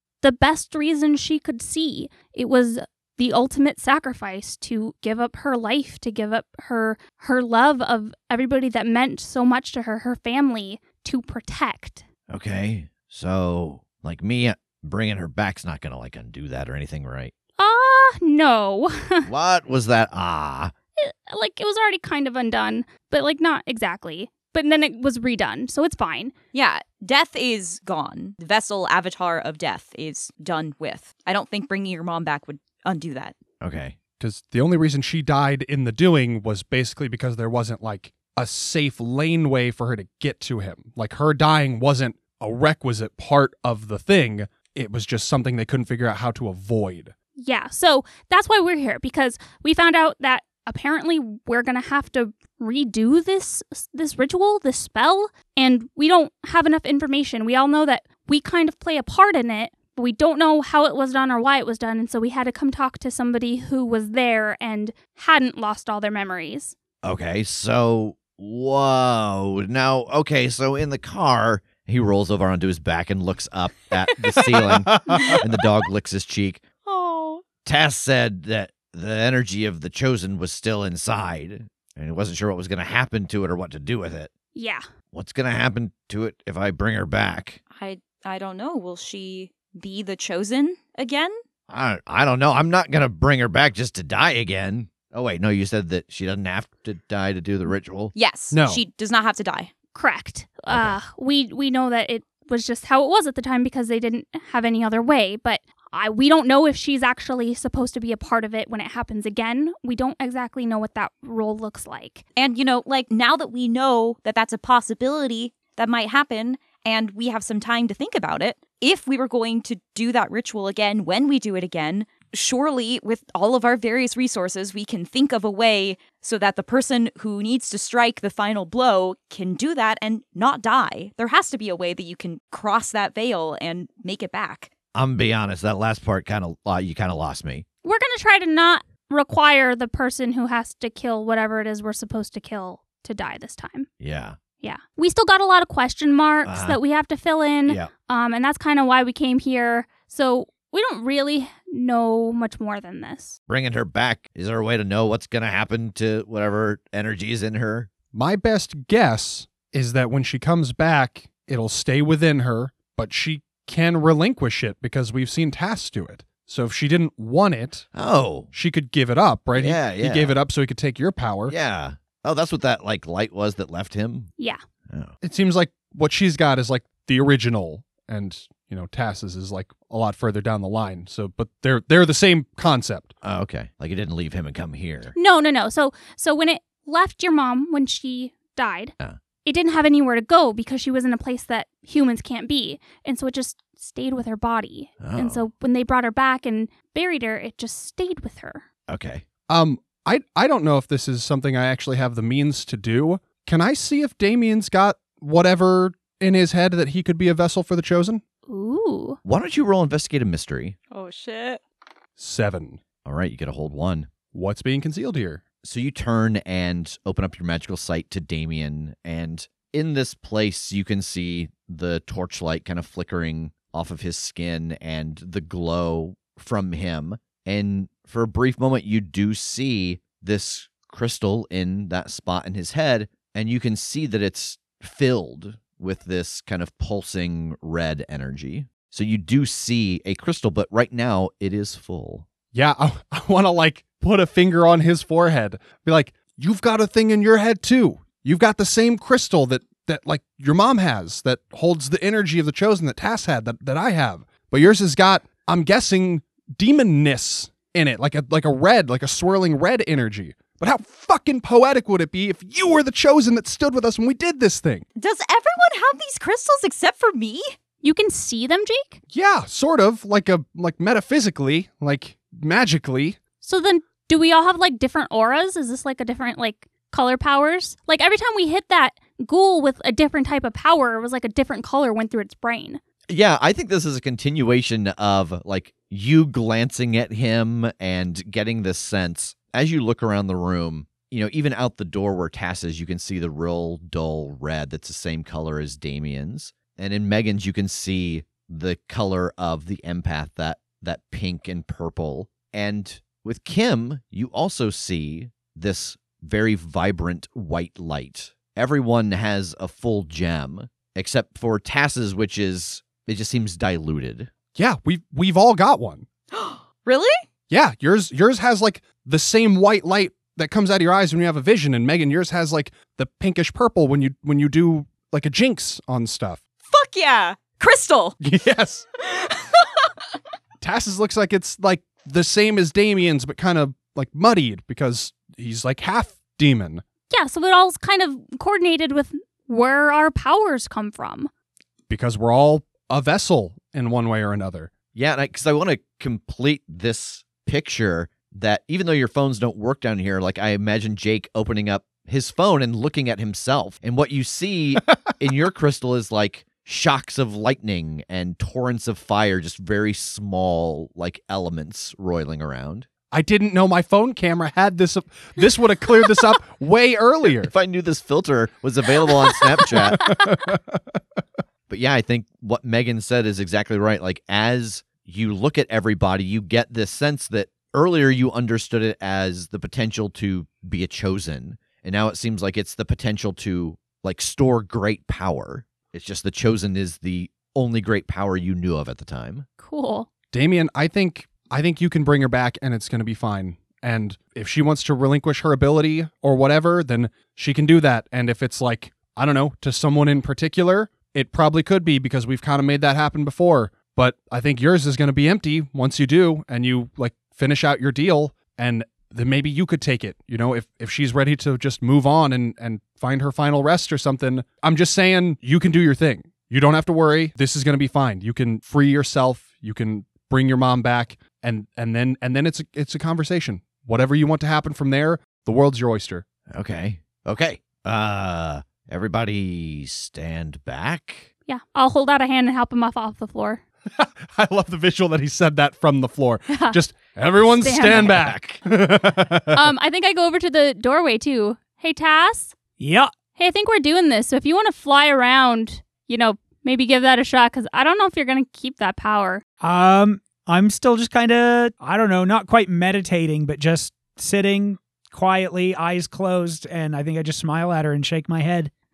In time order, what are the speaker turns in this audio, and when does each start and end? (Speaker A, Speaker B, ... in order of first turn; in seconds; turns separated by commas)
Speaker A: 0.2-12.1, Speaker B: 12.3-17.3, Speaker A: 17.6-19.3, Speaker B: 19.2-20.7, Speaker A: 21.0-26.3, Speaker C: 26.5-33.4, Speaker B: 33.6-34.0, Speaker D: 34.2-47.1, Speaker A: 47.4-66.8, Speaker B: 67.0-76.6, Speaker D: 74.9-75.3, Speaker C: 76.8-77.5, Speaker B: 77.6-84.3, Speaker A: 84.5-84.8, Speaker B: 85.1-87.6, Speaker C: 87.7-91.3, Speaker B: 91.7-98.1, Speaker C: 98.2-99.7, Speaker D: 98.5-98.8, Speaker A: 99.9-112.2, Speaker B: 100.7-101.0, Speaker C: 112.4-134.7, Speaker B: 134.9-137.7, Speaker A: 137.8-143.9, Speaker B: 144.0-144.4, Speaker A: 144.6-153.4, Speaker B: 146.4-146.8, Speaker B: 153.5-157.9, Speaker D: 158.1-167.9, Speaker B: 167.9-168.5, Speaker D: 168.5-171.5, Speaker B: 169.5-170.4, Speaker B: 171.5-174.3, Speaker B: 174.9-175.2, Speaker D: 175.2-183.1, Speaker B: 183.2-185.2, Speaker A: 185.2-188.9, Speaker A: 189.4-198.7, Speaker B: 195.0-195.4, Speaker B: 198.9-199.2, Speaker D: 199.5-208.2, Speaker A: 208.5-209.2, Speaker B: 209.2-210.8, Speaker C: 210.9-211.6, Speaker D: 212.2-212.8, Speaker B: 213.1-214.1, Speaker D: 214.3-215.4, Speaker B: 215.6-242.3, Speaker D: 242.5-264.9, Speaker C: 265.0-267.5, Speaker A: 267.8-269.0, Speaker D: 269.1-273.2, Speaker A: 273.4-282.8, Speaker B: 283.1-314.3, Speaker D: 314.5-316.1, Speaker C: 316.3-317.1, Speaker D: 317.5-326.4, Speaker C: 326.6-328.2, Speaker D: 328.2-328.9, Speaker C: 329.0-329.9, Speaker D: 330.6-336.8, Speaker A: 337.1-341.3, Speaker D: 341.9-344.7, Speaker B: 344.9-362.9, Speaker D: 363.1-367.5, Speaker B: 367.4-370.2, Speaker D: 369.7-370.8, Speaker B: 371.7-389.5, Speaker A: 389.6-390.1, Speaker D: 390.3-426.2, Speaker B: 426.5-431.3, Speaker A: 431.5-433.6, Speaker D: 433.9-439.6, Speaker A: 436.5-436.8, Speaker A: 437.6-438.2, Speaker B: 437.6-438.6, Speaker A: 439.5-442.6, Speaker E: 442.8-443.1, Speaker A: 443.4-449.4, Speaker E: 449.6-458.7